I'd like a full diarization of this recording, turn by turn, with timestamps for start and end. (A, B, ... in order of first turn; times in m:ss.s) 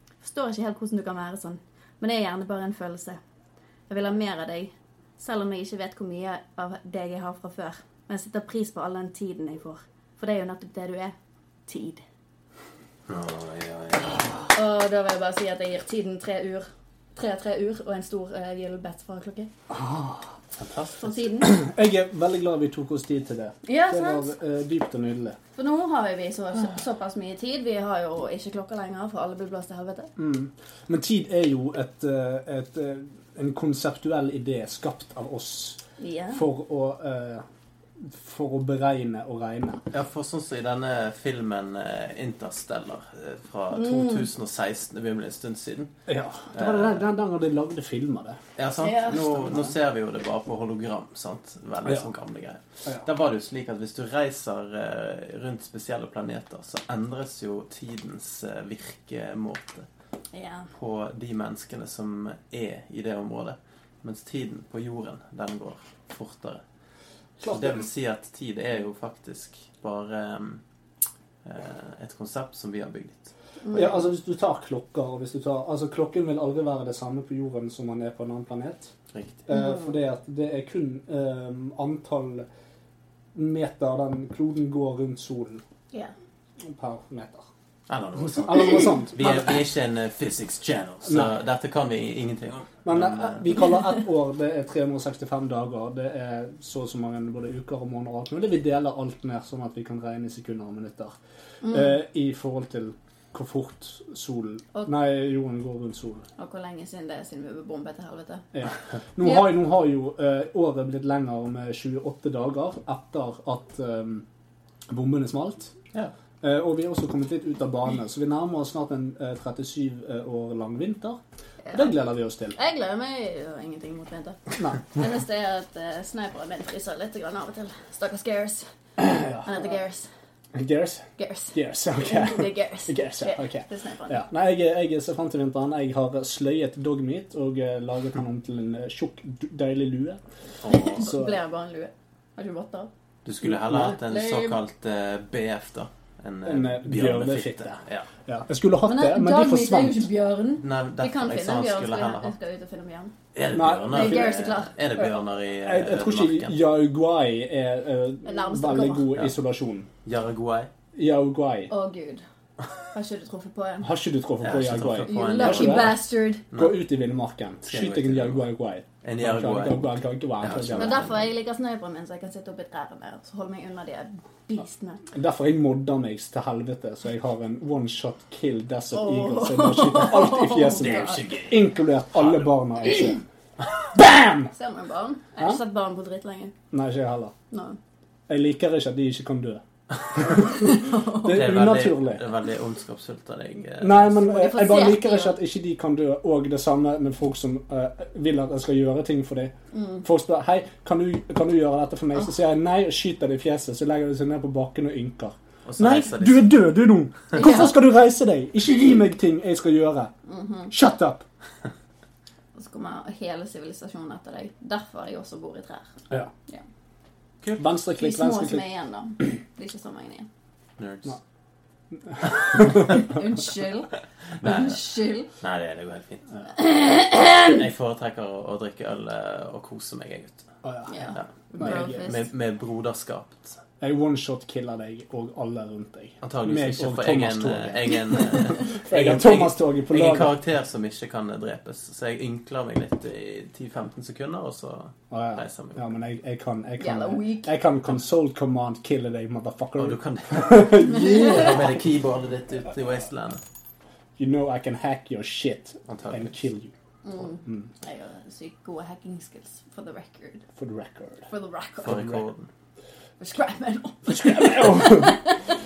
0:00.2-0:03.2 A
0:03.9-0:11.2 A
0:11.7-0:12.0 A
0:13.1-0:14.3 B
0:14.5-0:19.5 A
0:19.7-0:20.3 C
0:20.6-0:21.0 B
0:21.0-0:21.6 A
0:21.4-0:25.4 C
0:23.7-0:24.3 A
0:25.6-0:30.1 A
0:30.2-0:35.8 C
0:36.0-0:36.4 A
0:36.3-0:37.4 C
0:38.0-0:39.8 C
0:39.9-0:45.9 B
0:43.7-0:44.3 A
0:46.1-0:48.4 C
0:46.5-0:47.0 B
0:48.6-0:59.9 B
0:48.8-0:49.2 A
0:49.1-0:49.7 C
1:00.3-1:00.7 A
1:00.8-1:06.6 B
1:07.4-1:07.9 C
1:07.5-1:10.6 B
1:11.4-1:13.3 B
1:13.6-1:14.0 A
1:13.7-1:18.9 C
1:19.1-1:19.4 B
1:19.5-1:22.5 C
1:19.5-1:19.8 A
1:23.4-1:25.6 C
1:26.6-1:27.4 C
1:27.9-1:33.4 B
1:28.3-1:29.6 C
1:31.1-1:31.3 C
1:32.8-1:46.2 C
1:41.6-1:42.0 A
1:46.4-1:48.4 A
1:48.5-1:54.2 C
1:54.9-1:55.7 C
1:56.4-2:01.2 C
2:01.6-2:02.0 A
2:01.7-2:02.6 C
2:02.6-2:08.7 A
2:04.6-2:04.8 C
2:09.0-2:09.7 C
2:09.4-2:10.1 A
2:10.6-2:20.2 C
2:11.2-2:14.2 A
2:20.6-2:21.1 B
2:20.7-2:22.9 A
2:21.0-2:21.4 C
2:23.2-2:28.1 B
2:23.7-2:23.9 C
2:23.8-2:24.6 A
2:26.4-2:30.1 C
2:28.9-2:33.1 A
2:30.6-2:32.3 B
2:33.4-2:36.6 B
2:33.5-2:34.4 C
2:33.9-2:34.7 A
2:35.6-2:39.9 C
2:38.3-2:39.1 A
2:40.0-2:40.7 B
2:41.0-2:41.7 C
2:41.7-2:42.2 A
2:42.9-2:43.9 A
2:43.8-2:51.1 C
2:44.4-2:46.8 B
2:45.1-2:46.4 A
2:47.6-2:48.5 B
2:49.0-2:51.3 B
2:50.8-2:55.0 A
2:55.1-3:03.2 C
2:58.9-3:01.2 A
3:00.8-3:01.6 B
3:02.2-3:02.5 B
3:03.9-3:04.5 C
3:04.5-3:06.5 A
3:06.7-3:07.3 C
3:07.5-3:07.8 A
3:08.3-3:09.6 C
3:10.2-3:12.2 C
3:10.5-3:11.4 A
3:11.3-3:14.2 B
3:13.8-3:30.1 C
3:14.2-3:15.4 A
3:19.7-3:20.0 A
3:25.6-3:26.7 B
3:27.4-3:27.7 A
3:30.3-3:30.7 A
3:30.7-3:31.2 C
3:32.6-3:35.9 A
3:37.4-3:37.7 B
3:37.6-3:38.7 C
3:38.0-3:40.3 A
3:40.8-3:41.2 B
3:42.1-3:42.9 C
3:42.7-3:45.3 A
3:44.4-3:44.8 B
3:45.4-3:46.3 B
3:46.6-3:47.6 A
3:47.4-3:50.5 B
3:50.6-3:51.0 C
3:50.9-3:52.3 A
3:51.1-3:53.6 B
3:51.5-3:52.1 C
3:53.8-4:00.4 C
3:56.2-4:05.8 B
4:05.1-4:11.7 C
4:06.8-4:07.5 A
4:09.8-4:13.4 B
4:10.8-4:11.5 A
4:14.2-4:16.7 C
4:15.9-4:16.4 B
4:17.0-4:20.4 A
4:20.6-4:21.3 C
4:21.3-4:22.2 A
4:21.8-4:22.5 B
4:23.2-4:25.4 A
4:24.1-4:25.2 C